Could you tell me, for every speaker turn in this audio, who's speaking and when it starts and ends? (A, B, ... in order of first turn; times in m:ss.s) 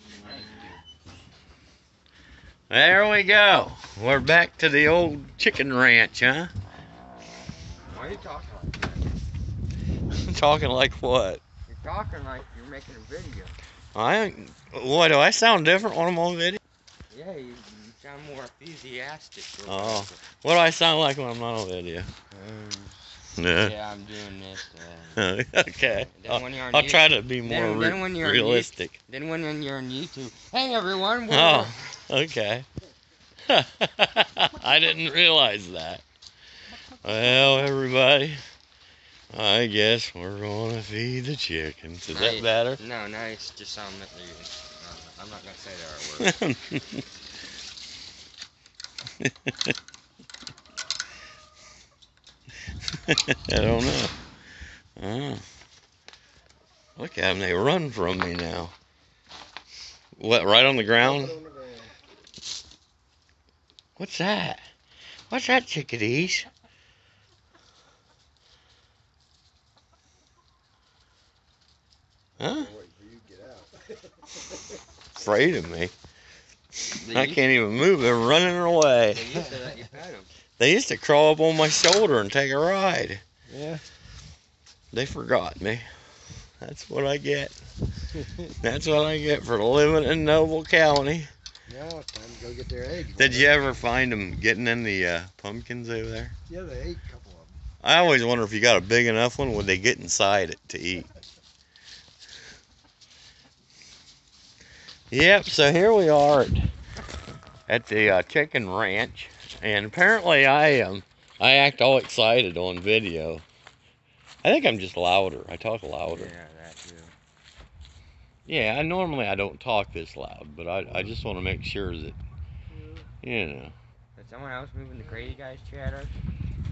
0:00.3-0:00.7 A
0:02.7-0:06.5 B
0:07.9-0:09.1 A
0:10.1-0:11.4 B
0:11.7-0:13.6 A
0:14.0-0:16.6 B
0:17.1-0:20.2 A
0:19.7-0:22.1 B
0:22.3-0:31.8 A
0:23.4-0:23.8 B
0:25.2-0:29.0 B
0:31.3-0:32.7 B
0:33.5-0:36.0 B
0:37.0-0:38.4 B
0:39.3-0:42.8 B
0:42.1-0:46.3 A
0:46.2-0:47.0 B
0:49.2-0:49.7 B
0:53.1-0:54.1 B
0:55.0-0:55.4 B
0:57.0-0:58.7 B
1:00.2-1:01.4 B
1:01.0-1:01.9 C
1:04.0-1:04.6 B
1:05.3-1:06.5 B
1:12.4-1:12.7 B
1:12.4-1:14.6 C
1:15.2-1:15.9 B
1:16.8-1:17.4 A
1:17.1-1:19.5 B
1:19.1-1:20.3 A
1:20.6-1:23.2 B
1:23.5-1:23.8 C
1:24.9-1:25.8 B
1:26.6-1:27.6 B
1:28.6-1:31.3 B
1:31.7-1:33.8 C
1:33.2-1:36.3 B
1:36.5-1:37.6 C
1:37.8-1:41.1 B
1:45.1-1:46.7 B
1:47.7-1:53.4 B
1:54.4-1:56.3 B
1:56.1-1:57.1 A
1:58.5-2:02.2 B
2:02.7-2:03.1 C
2:03.2-2:03.8 B
2:04.2-2:06.2 A
2:05.1-2:05.3 C